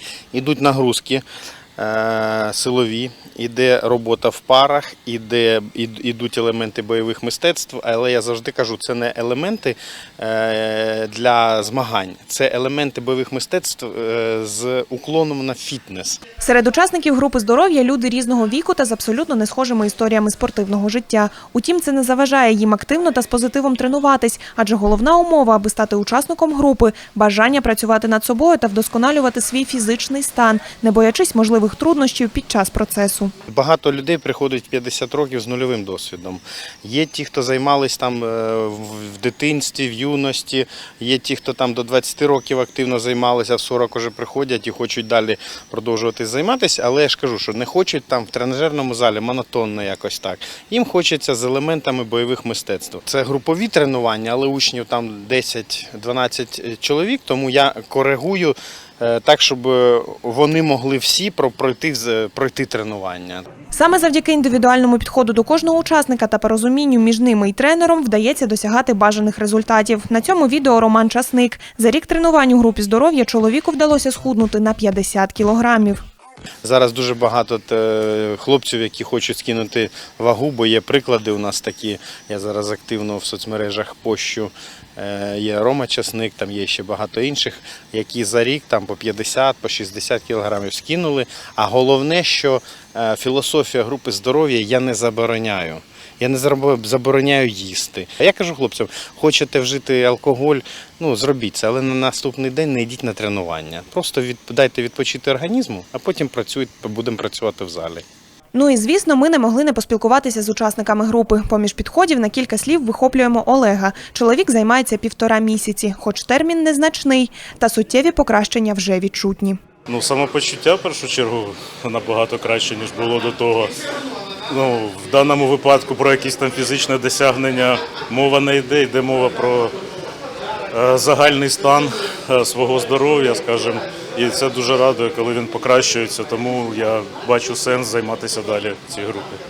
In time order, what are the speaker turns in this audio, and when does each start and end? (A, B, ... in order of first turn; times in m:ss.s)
0:00.3-0:01.2 A
0:01.8-0:16.2 A
0:16.4-0:33.3 B
0:33.5-1:03.4 A
1:03.7-1:16.0 B
1:16.6-1:48.0 A
1:48.5-1:59.6 B
1:59.9-2:03.7 C
2:04.5-2:09.8 C
2:10.7-2:19.4 C